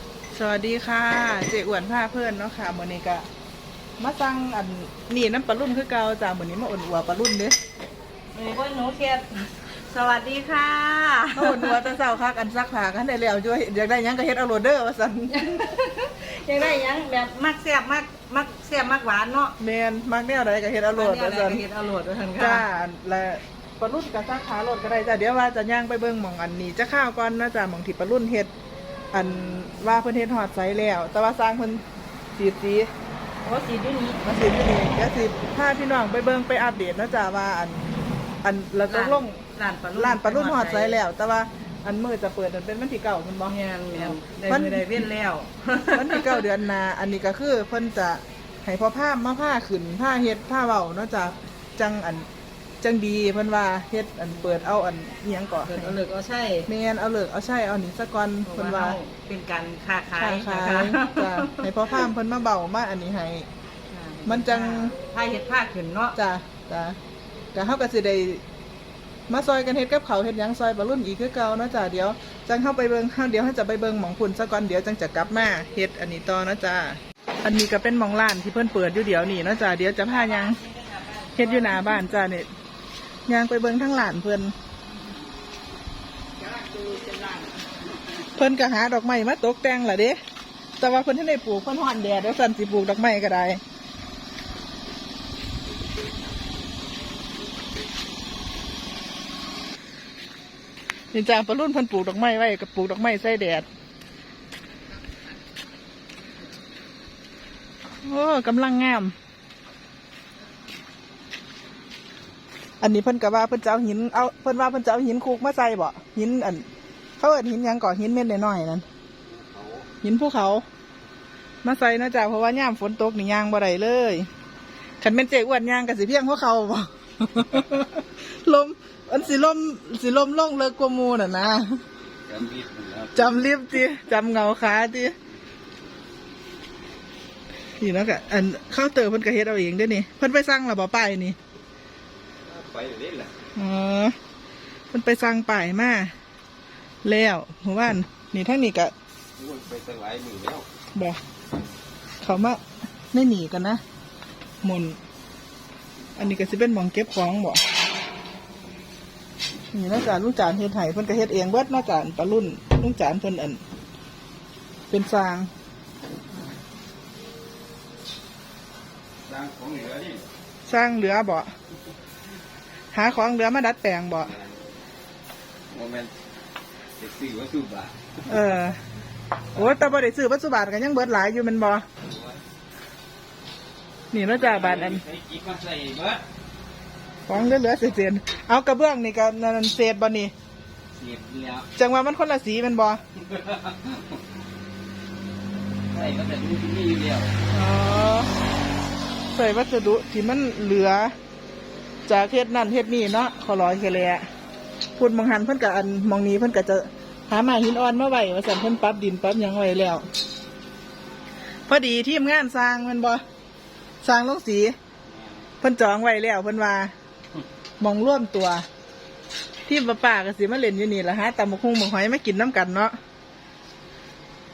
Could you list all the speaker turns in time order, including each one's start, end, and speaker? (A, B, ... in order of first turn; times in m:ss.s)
0:00.3-0:03.3 A
0:04.0-0:07.6 A
0:08.3-0:11.9 B
0:11.4-0:15.6 A
0:15.3-0:19.6 B
0:19.6-0:21.6 A
0:20.9-0:22.6 B
0:22.4-0:28.5 A
0:29.1-0:32.9 A
0:33.4-0:34.2 B
0:34.2-0:37.9 A
0:38.4-0:39.4 A
0:38.9-0:41.0 B
0:40.0-0:45.0 A
0:43.5-0:46.5 B
0:45.9-0:52.3 A
0:52.8-0:56.0 A
0:54.4-0:54.7 B
0:55.7-0:56.7 B
0:56.7-0:59.0 A
0:58.5-1:02.1 B
1:00.2-1:03.5 A
1:03.9-1:06.2 B
1:04.3-1:05.0 A
1:06.2-1:07.0 A
1:07.5-1:08.4 A
1:09.3-1:20.6 A
1:20.0-1:22.2 B
1:21.4-1:22.5 A
1:23.3-1:24.6 A
1:26.4-1:27.8 B
1:28.3-1:30.2 A
1:30.8-1:33.6 A
1:41.1-1:43.7 A
1:48.0-1:49.2 A
1:52.8-1:56.7 A
1:57.2-1:58.9 A
1:59.3-1:59.9 C
2:00.0-2:00.6 A
2:01.6-2:04.3 A
2:05.0-2:11.8 A
2:12.3-2:13.3 C
2:13.1-2:15.2 A
2:17.8-2:21.4 A
2:22.5-2:23.3 C
2:23.6-2:24.2 A
2:24.9-2:26.2 A
2:27.0-2:28.9 A
2:29.4-2:30.7 C
2:30.9-2:31.2 A
2:32.2-2:33.8 A
2:34.6-2:35.0 A
2:36.2-2:37.6 A
2:39.7-2:43.6 A
2:44.9-2:45.5 A
2:49.2-2:50.3 C
2:50.7-2:51.5 A
2:52.9-2:54.4 A
2:54.3-2:54.6 C
2:55.7-2:56.1 C
2:57.0-2:58.1 C
2:58.2-2:58.8 A
2:59.5-3:01.8 A
3:02.1-3:02.4 C
3:04.1-3:05.0 A
3:04.3-3:06.2 C
3:07.3-3:10.3 A
3:11.0-3:11.7 C
3:11.8-3:13.0 A
3:13.3-3:14.1 C
3:15.9-3:17.3 C
3:17.5-3:18.3 A
3:19.3-3:21.2 A
3:22.1-3:24.3 A
3:25.0-3:30.1 A
3:31.7-3:33.2 A
3:34.0-3:34.8 A
3:35.1-3:35.4 C
3:35.6-3:36.9 A
3:37.8-3:38.7 A
3:39.7-3:43.0 A